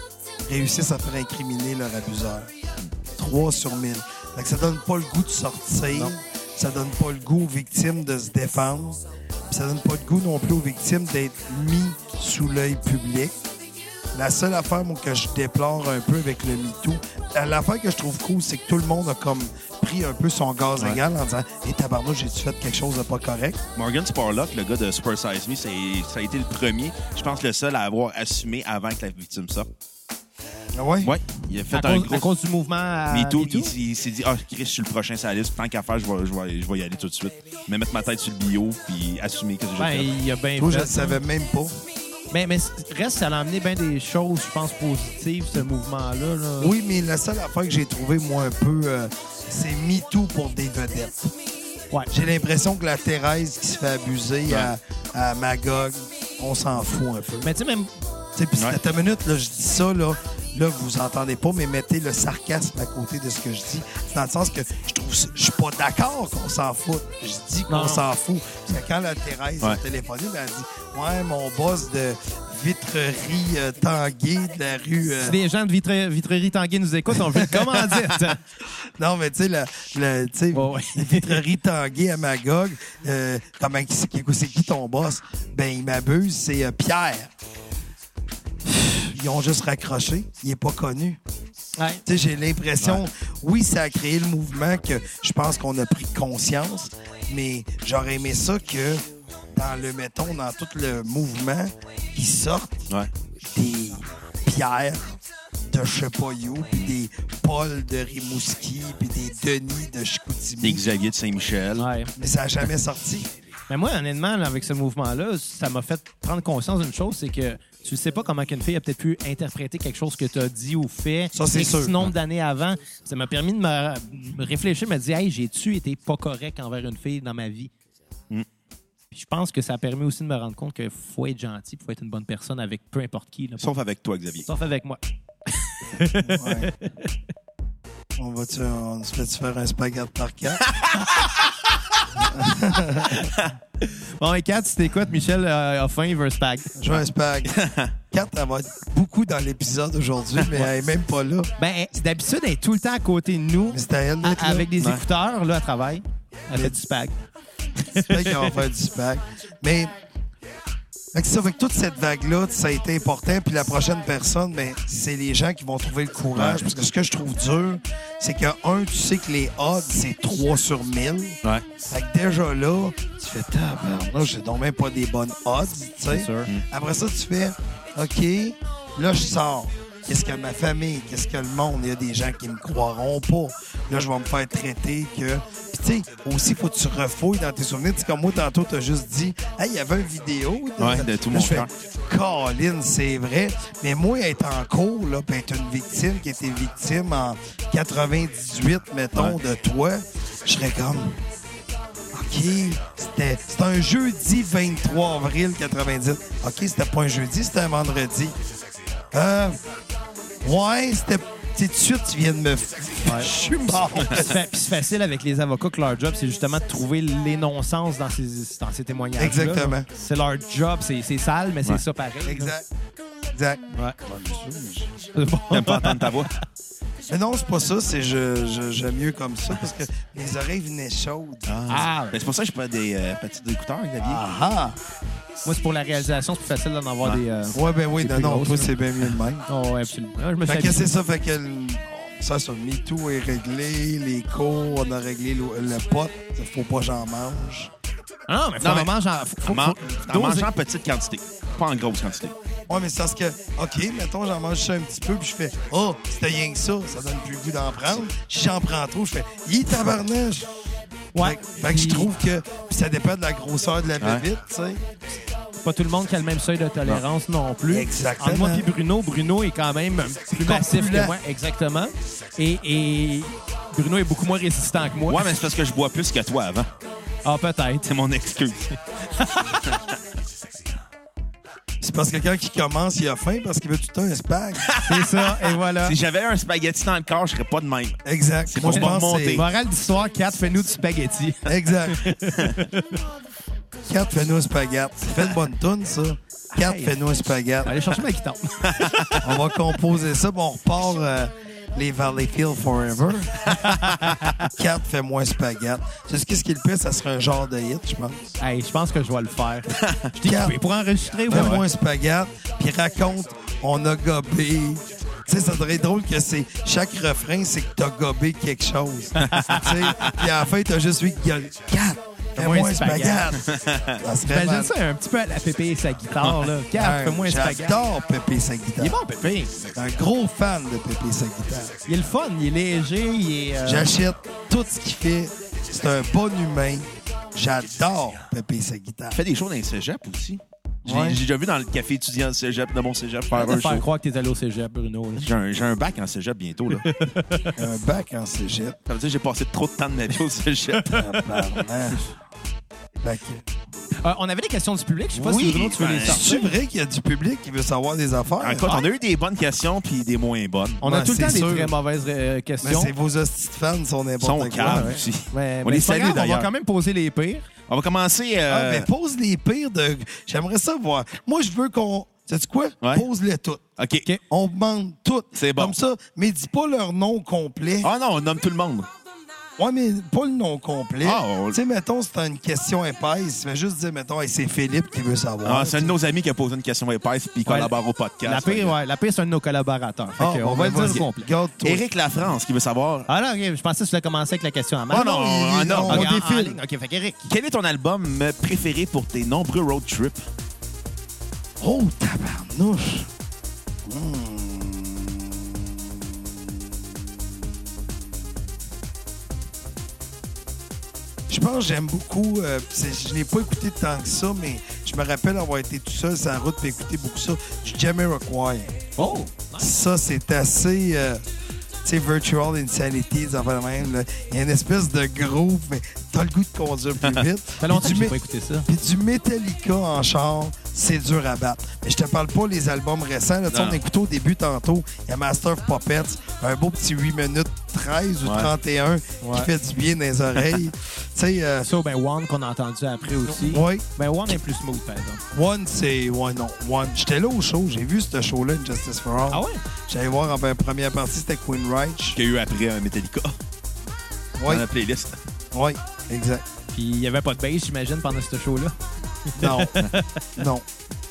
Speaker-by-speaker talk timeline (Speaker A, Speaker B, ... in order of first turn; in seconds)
Speaker A: 0.5-2.5, 3.1-13.3, 14.1-23.6, 30.7-31.1, 40.6-41.8, 46.6-51.3, 52.1-57.5, 58.4-75.4, 79.0-87.3, 88.6-91.2, 92.0-102.9, 103.4-105.1, 105.7-110.8, 112.2-113.3, 121.3-122.1, 136.2-136.7, 138.2-140.7, 142.2-143.2, 146.8-147.5, 148.1-151.5, 153.7-154.7, 156.5-156.8, 158.1-159.9, 161.1-171.4, 171.9-201.2, 202.1-208.3, 209.1-209.6, 210.4-214.3, 219.2-219.9, 222.2-222.7, 223.3-224.9, 227.1-231.5, 234.0-234.8, 237.5-239.4, 240.4-247.7, 252.7-260.5, 261.1-264.8, 267.7-268.7, 270.4-271.1, 281.8-284.8, 288.0-289.4, 291.4-292.1, 293.9-297.8, 299.2-303.4, 304.4-308.4, 310.2-310.6, 311.3-324.7, 326.7-329.0, 329.7-331.8, 333.6-339.2, 340.8-341.2, 347.6-348.8, 350.9-352.0, 353.0-353.4, 356.0-358.6, 360.8-361.7, 362.6-365.0, 368.5-373.6, 374.3-377.9, 379.6-385.9, 390.2-391.8, 395.0-396.6, 401.6-403.1, 403.8-407.0, 411.3-418.9, 419.6-421.2, 421.8-441.7, 443.5-443.8, 445.3-452.2, 454.4-454.6, 455.5-456.4, 459.4-459.8, 460.4-460.6
Speaker B: 23.8-29.7, 31.0-32.3, 33.1-40.1, 110.6-111.9, 133.6-134.5, 140.7-141.3, 147.4-147.9, 150.4-150.7, 154.8-155.0, 166.3-166.8, 190.8-191.7, 225.5-226.3, 231.5-234.2, 248.6-248.9, 249.4-252.3, 275.1-276.7, 277.8-278.7, 284.6-289.4, 298.6-299.1, 309.8-310.0, 311.3-311.6, 319.2-320.1, 323.4-324.0, 326.2-326.5, 339.1-343.8, 345.2-346.9, 348.9-351.0, 355.1-356.2, 358.4-360.8, 364.2-366.5, 367.7-368.9, 373.8-374.1, 375.3-375.8, 377.8-378.9, 381.0-381.6, 385.4-388.7, 391.6-393.1, 394.9-396.1, 397.3-400.2, 433.5-433.8, 438.2-438.5, 443.3-443.6, 452.1-453.4, 454.5-455.2
Speaker C: 31.7-33.7, 39.8-41.2, 42.3-46.7, 57.4-57.9, 67.7-68.0, 75.2-78.4, 80.5-81.4, 91.8-92.0, 111.8-112.1, 113.7-127.7, 129.1-133.6, 134.5-137.1, 142.9-143.3, 143.8-146.7, 151.6-157.2, 157.8-158.5, 176.1-176.5, 213.0-213.3, 214.0-222.5, 225.1-226.2, 231.7-232.2, 235.4-238.7, 239.5-240.9, 248.3-250.5, 261.1-262.1, 265.6-275.4, 277.2-277.9, 279.1-279.6, 284.8-285.9, 288.7-293.0, 296.5-296.9, 297.6-299.2, 303.4-304.5, 308.4-311.6, 319.1-319.7, 322.4-323.3, 324.2-327.8, 328.8-329.6, 331.9-333.9, 343.3-345.3, 346.8-347.6, 350.7-351.6, 354.0-356.5, 360.8-362.9, 364.6-367.4, 387.4-391.2, 393.1-397.3, 419.0-419.7, 427.6-428.7, 439.2-439.5, 441.6-445.2, 449.3-449.6, 456.7-458.7, 459.3-460.2